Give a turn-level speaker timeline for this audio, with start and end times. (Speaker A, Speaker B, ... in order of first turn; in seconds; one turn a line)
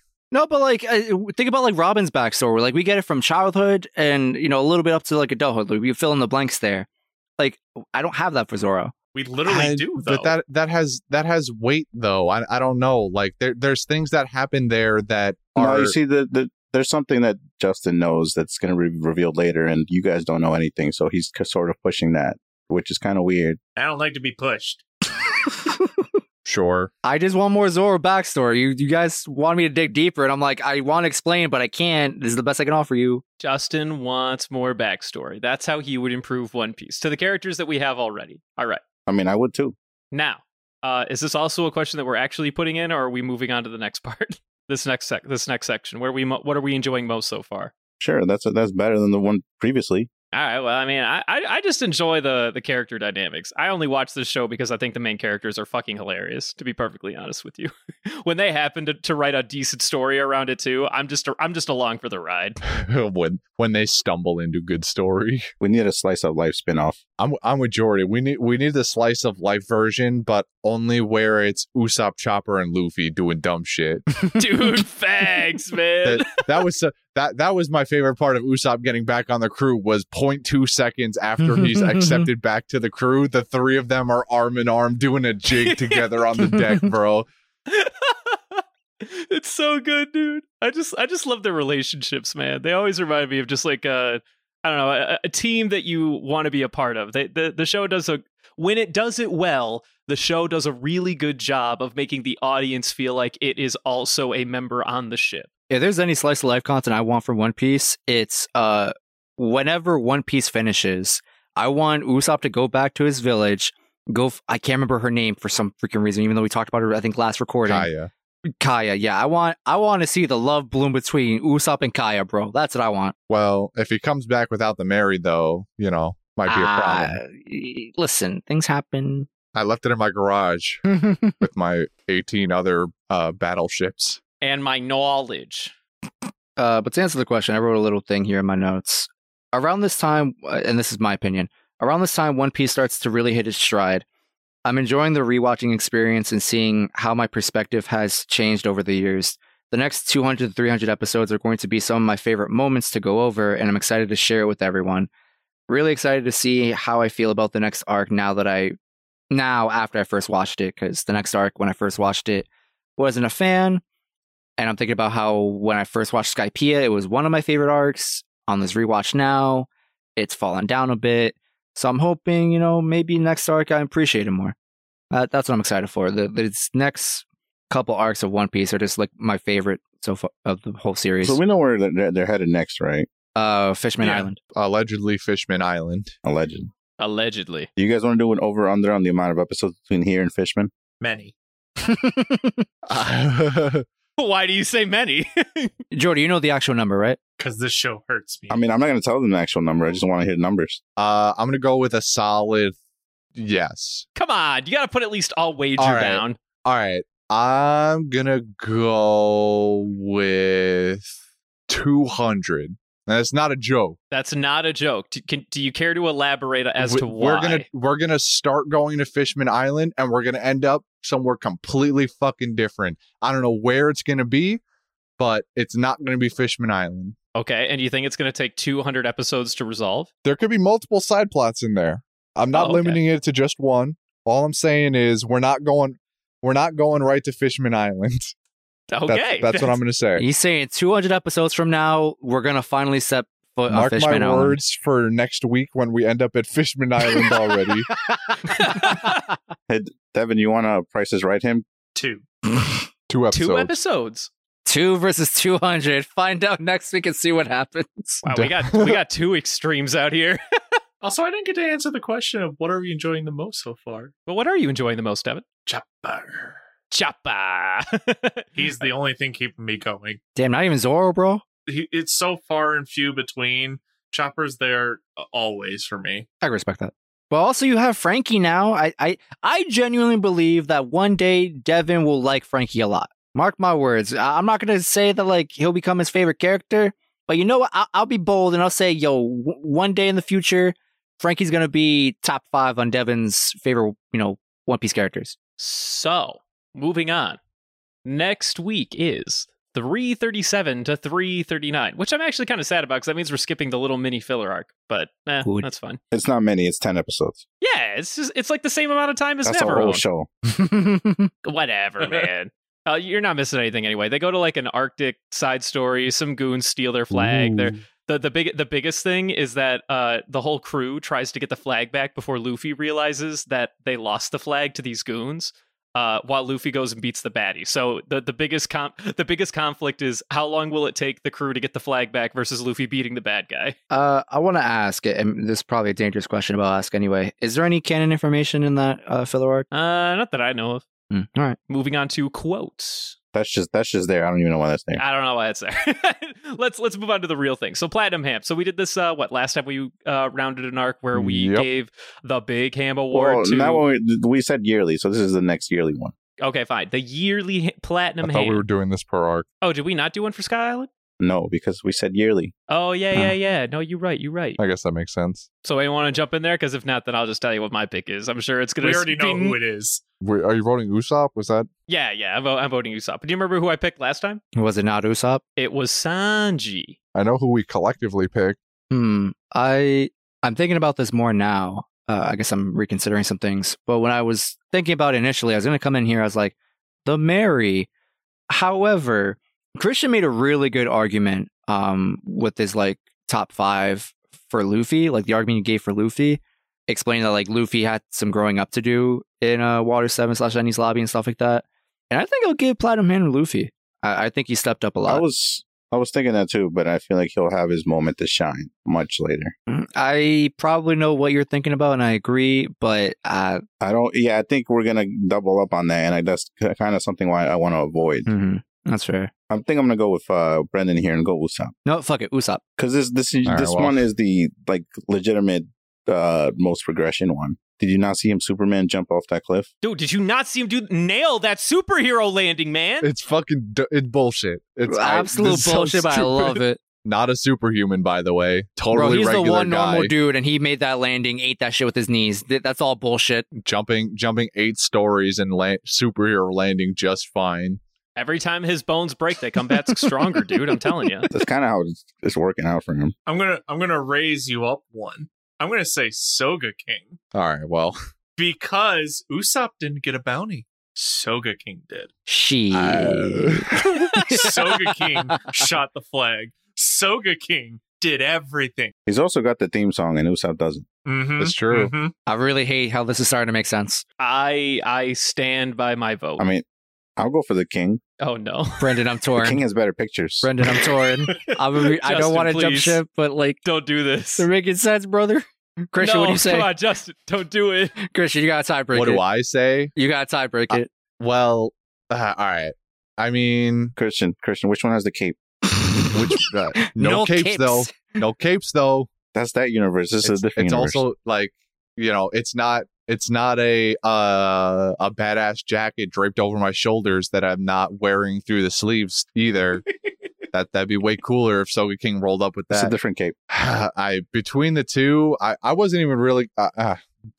Speaker A: 0.3-6.9
Speaker A: 7.4-8.9
Speaker B: 9.1-10.3
Speaker C: 9.4-15.9
Speaker D: 15.6-23.6
Speaker B: 23.8-24.8
Speaker C: 26.4-26.9
Speaker A: 27.0-33.2
Speaker E: 33.4-38.8
Speaker D: 39.1-39.8
Speaker E: 40.1-47.7
Speaker D: 48.0-50.1
Speaker E: 50.3-62.6
Speaker C: 62.6-65.5
Speaker D: 65.6-67.0
Speaker C: 67.2-74.0
Speaker E: 74.3-76.4
Speaker C: 76.0-87.3
Speaker A: 81.6-82.2
Speaker E: 85.6-86.2
Speaker E: 87.7-105.5
Speaker A: 105.7-117.9
Speaker C: 117.6-118.1
Speaker A: 118.6-123.1
Speaker C: 123.3-127.2
Speaker A: 126.5-129.3
Speaker C: 129.5-130.8
Speaker A: 131.0-131.3
Speaker C: 131.4-134.2
Speaker E: 134.4-135.7
Speaker A: 136.6-144.0
Speaker A: 144.6-155.1
Speaker A: 155.7-158.8
Speaker A: 159.3-162.4
Speaker A: 163.0-163.8
Speaker A: 164.6-174.5
Speaker A: 175.1-181.4
Speaker D: 181.2-183.1
Speaker A: 183.3-184.4
Speaker C: 184.1-186.1
Speaker D: 186.2-186.7
Speaker E: 187.0-187.7
Speaker D: 187.8-190.7
Speaker B: 191.0-191.3
Speaker A: 191.8-192.6
Speaker C: 192.9-193.8
Speaker E: 194.2-195.7
Speaker A: 195.9-197.2
Speaker B: 197.4-198.6
Speaker D: 198.5-200.8
Speaker C: 201.0-202.8
Speaker C: 203.3-204.1
Speaker E: 204.2-206.4
Speaker C: 205.8-211.1
Speaker C: 211.7-214.0
Speaker E: 214.1-217.7
Speaker C: 216.8-224.6
Speaker C: 225.2-227.1
Speaker E: 227.3-230.1
Speaker C: 230.2-238.3
Speaker E: 232.5-233.0
Speaker E: 238.9-239.8
Speaker C: 239.1-240.2
Speaker A: 240.2-244.6
Speaker C: 243.7-247.9
Speaker A: 247.9-249.0
Speaker E: 248.7-249.2
Speaker D: 249.7-251.7
Speaker B: 251.9-252.2
Speaker C: 253.1-253.7
Speaker E: 253.3-254.3
Speaker A: 254.7-258.2
Speaker E: 258.2-260.4
Speaker C: 258.3-259.0
Speaker B: 261.0-264.1
Speaker E: 264.2-265.4
Speaker B: 265.6-266.6
Speaker E: 266.9-268.8
Speaker B: 268.5-270.2
Speaker A: 270.3-271.4
Speaker B: 271.7-276.3
Speaker A: 276.4-295.4
Speaker E: 295.6-297.4
Speaker E: 298.0-306.0
Speaker A: 305.4-305.7
Speaker D: 306.1-307.4
Speaker E: 307.6-310.0
Speaker D: 309.4-310.3
Speaker A: 310.5-311.3
Speaker E: 311.4-333.8
Speaker A: 333.9-339.6
Speaker E: 339.7-340.8
Speaker A: 341.1-341.6
Speaker E: 341.7-343.1
Speaker D: 343.3-345.0
Speaker E: 345.0-353.8
Speaker C: 351.1-351.7
Speaker D: 353.1-356.1
Speaker E: 356.4-358.6
Speaker C: 358.2-359.5
Speaker E: 359.6-360.9
Speaker D: 361.2-362.5
Speaker E: 362.7-364.6
Speaker C: 364.6-365.5
Speaker E: 365.6-369.6
Speaker B: 368.8-370.0
Speaker C: 370.2-371.7
Speaker E: 371.9-374.4
Speaker A: 374.6-375.4
Speaker E: 375.6-377.0
Speaker C: 377.1-378.6
Speaker A: 378.9-386.5
Speaker A: 387.1-387.9
Speaker A: 388.5-405.2
Speaker D: 405.1-409.5
Speaker A: 409.7-413.6
Speaker D: 413.8-418.3
Speaker A: 418.2-419.3
Speaker D: 419.5-421.7
Speaker A: 421.9-422.6
Speaker D: 422.8-429.7
Speaker C: 423.4-424.0
Speaker E: 429.8-433.1
Speaker C: 433.0-440.1
Speaker A: 434.9-436.8
Speaker A: 438.9-443.4
Speaker C: 443.5-447.8
Speaker E: 448.1-451.3
Speaker D: 451.3-453.1
Speaker B: 453.2-457.2
Speaker C: 457.3-458.0
Speaker B: 458.4-462.1
Speaker A: 462.3-464.9
Speaker C: 462.7-464.4
Speaker B: 464.3-468.9
Speaker D: 469.1-470.9
Speaker B: 471.0-472.1
Speaker C: 471.4-471.9
Speaker A: 472.2-474.0
Speaker E: 474.2-476.4
Speaker D: 476.4-476.6
Speaker D: 477.2-478.0
Speaker E: 478.2-479.0
Speaker A: 478.8-479.6
Speaker D: 479.4-480.5
Speaker A: 480.4-483.6
Speaker E: 482.0-483.0
Speaker E: 483.6-484.5
Speaker A: 484.4-486.7
Speaker E: 486.0-487.9
Speaker A: 488.0-489.2
Speaker C: 488.9-489.9
Speaker A: 489.9-490.9
Speaker C: 490.7-493.9
Speaker D: 494.0-495.4
Speaker C: 496.1-499.1
Speaker A: 496.8-498.0
Speaker D: 499.3-501.0
Speaker C: 500.2-509.8
Speaker C: 510.5-512.9
Speaker D: 512.7-513.3
Speaker C: 513.5-517.0